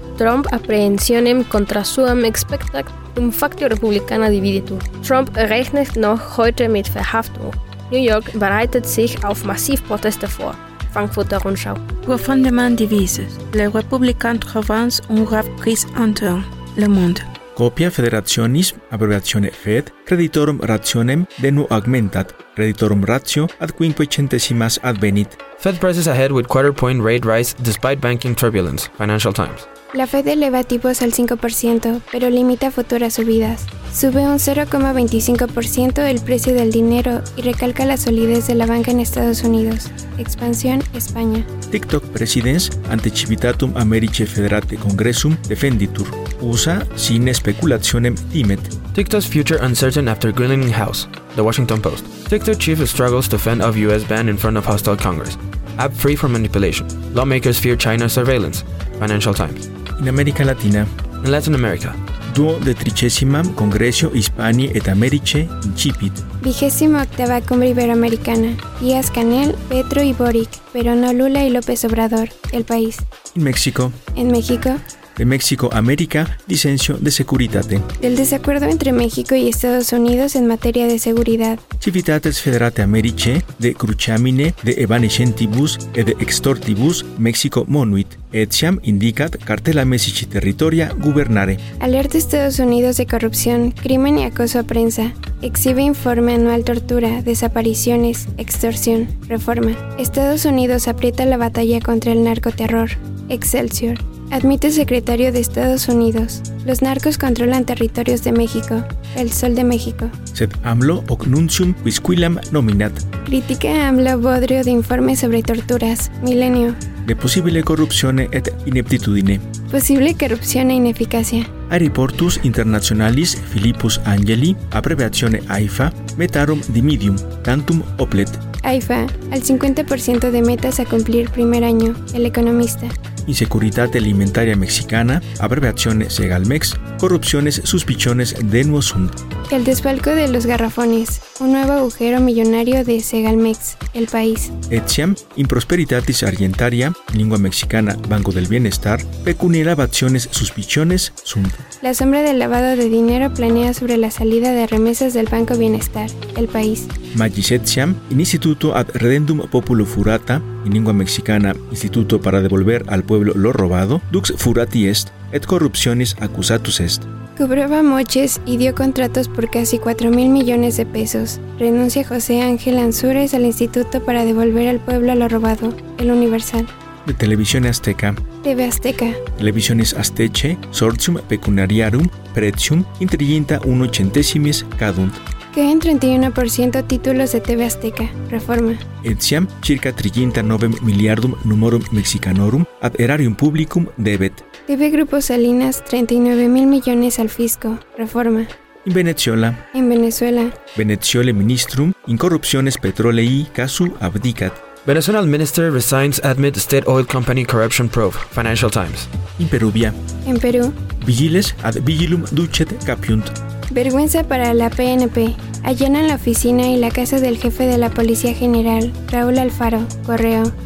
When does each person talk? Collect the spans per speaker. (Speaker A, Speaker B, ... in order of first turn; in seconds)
Speaker A: 0.2-11.8
Speaker B: 12.1-17.3
Speaker C: 17.6-25.4, 41.7-48.7, 60.0-60.9, 62.3-66.2, 73.3-74.0, 75.2-77.9, 81.8-91.6, 110.3-113.0, 117.0-119.5, 121.7-128.4, 133.2-139.2, 144.7-151.6, 157.1-167.1, 177.1-178.2, 179.4-185.2, 189.0-194.4, 198.8-199.6, 200.8-204.6, 209.4-210.0, 211.0-213.3
Speaker D: 25.6-29.6, 48.9-59.6, 61.2-62.0, 204.8-209.1
Speaker E: 29.9-41.5, 66.4-73.0, 74.2-74.8, 78.0-81.6, 91.8-110.1, 113.3-116.8, 119.7-121.5, 128.6-132.9, 139.5-144.5, 151.8-156.9, 167.4-176.7, 178.4-179.2, 185.5-188.8, 194.7-198.5, 199.7-200.6, 210.3-210.8, 213.7-220.5